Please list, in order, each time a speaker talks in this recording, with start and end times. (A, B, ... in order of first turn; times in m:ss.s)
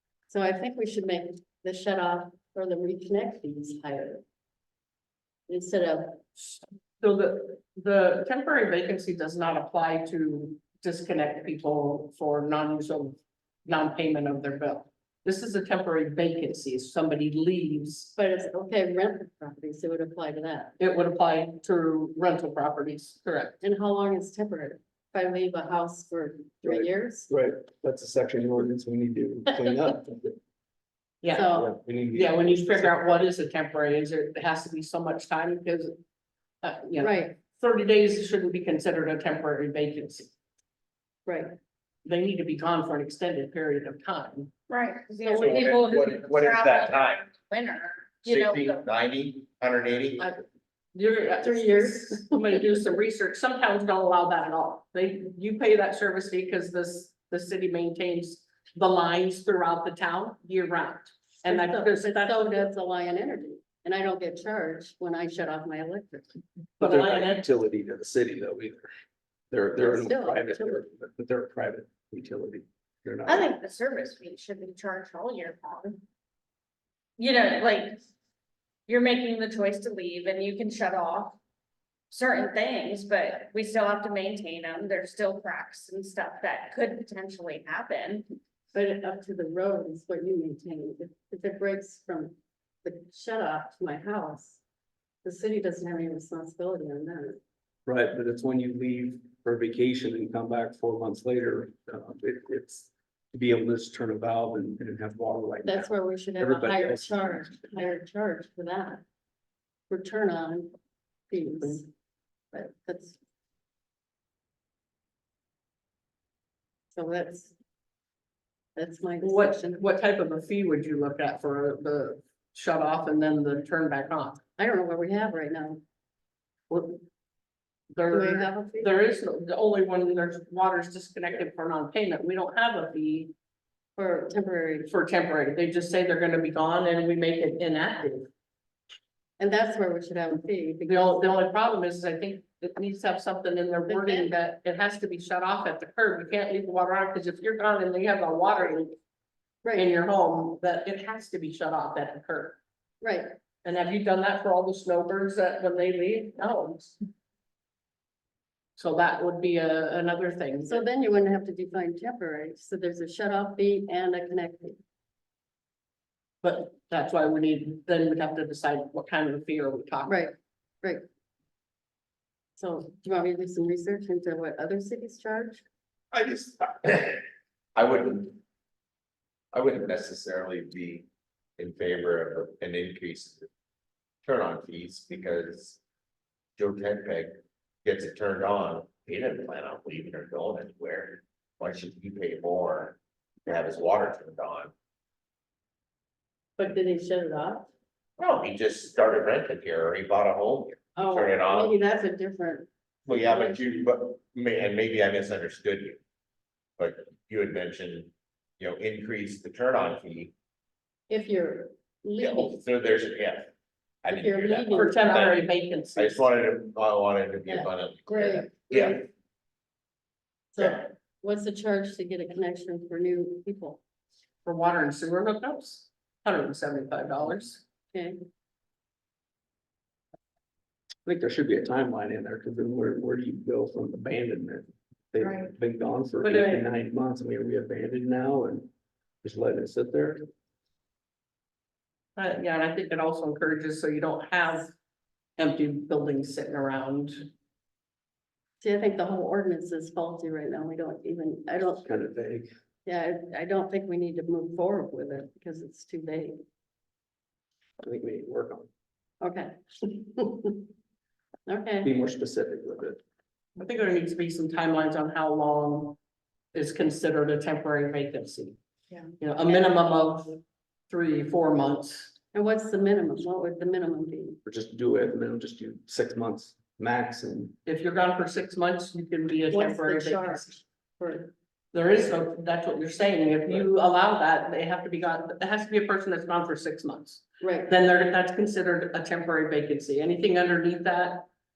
0:00.3-0:04.2 A
0:05.5-0:06.2 A
0:06.4-0:18.1 B
0:18.2-0:20.8 A
0:20.8-0:23.6 B
0:23.6-0:27.3 A
0:26.6-0:30.4 C
0:31.2-0:31.5 B
0:31.3-0:31.7 A
0:31.5-0:33.1 C
0:32.1-0:35.9 B
0:36.6-0:40.3 B
0:37.0-0:37.3 A
0:41.2-0:41.5 A
0:42.0-0:44.5 B
0:44.7-0:48.8 D
0:45.2-0:47.2 E
0:48.2-0:50.3 E
0:50.9-1:02.7 B
0:51.4-0:52.7 A
1:01.4-1:06.3 A
1:06.8-1:07.5 B
1:06.8-1:08.9 C
1:09.5-1:13.5 C
1:09.8-1:10.8 A
1:13.2-1:16.0 D
1:17.2-1:18.0 D
1:18.9-1:21.4 D
1:22.1-1:28.3 D
1:28.7-1:34.6 A
1:35.2-1:37.4 A
1:37.8-1:47.5 C
1:45.6-1:49.0 A
1:49.9-1:50.7 A
1:51.3-1:51.9 A
1:52.5-1:53.2 A
1:56.9-1:57.5 A
1:58.8-1:59.8 A
1:59.2-2:04.4 B
2:04.6-2:05.8 A
2:06.7-2:07.0 B
2:07.9-2:13.3 B
2:08.1-2:09.0 A
2:14.0-2:14.9 A
2:14.9-2:18.3 B
2:19.4-2:21.4 A
2:20.8-2:29.0 B
2:23.9-2:24.3 A
2:29.6-2:29.9 A
2:29.7-2:32.6 B
2:33.0-2:33.4 A
2:33.6-2:37.0 B
2:38.8-2:40.8 B
2:40.6-2:44.8 A
2:46.4-2:50.2 B
2:50.1-2:51.0 A
2:52.6-2:55.6 A
2:56.1-2:57.2 E
2:57.7-2:58.4 E
2:59.5-3:01.0 E
3:01.6-3:03.5 E
3:04.2-3:05.8 E
3:06.6-3:14.7 E
3:16.6-3:17.7 A
3:18.2-3:21.7 E
3:21.0-3:23.6 A
3:23.1-3:26.0 E
3:26.8-3:30.3 E
3:31.1-3:32.6 A
3:32.2-3:33.5 E
3:34.0-3:39.0 E
3:34.1-3:35.3 A
3:34.7-3:36.3 B
3:37.5-3:39.1 A
3:40.5-3:43.8 A
3:44.4-3:47.6 B
3:47.9-3:48.2 A
3:51.0-3:58.7 C
3:56.2-3:56.6 B
3:59.2-4:00.2 C
4:02.2-4:04.7 B
4:05.4-4:07.3 B
4:08.6-4:11.8 A
4:11.8-4:12.5 C
4:12.8-4:16.4 A
4:17.8-4:18.7 C
4:19.2-4:20.7 A
4:21.4-4:21.9 A
4:21.8-4:23.0 C
4:23.6-4:26.0 B
4:26.5-4:28.6 B
4:29.2-4:32.1 B
4:29.5-4:30.0 A
4:32.3-4:34.4 A
4:34.4-4:37.6 C
4:37.6-4:40.6 B
4:39.5-4:41.3 A
4:41.7-4:51.3 B
4:47.4-4:47.7 A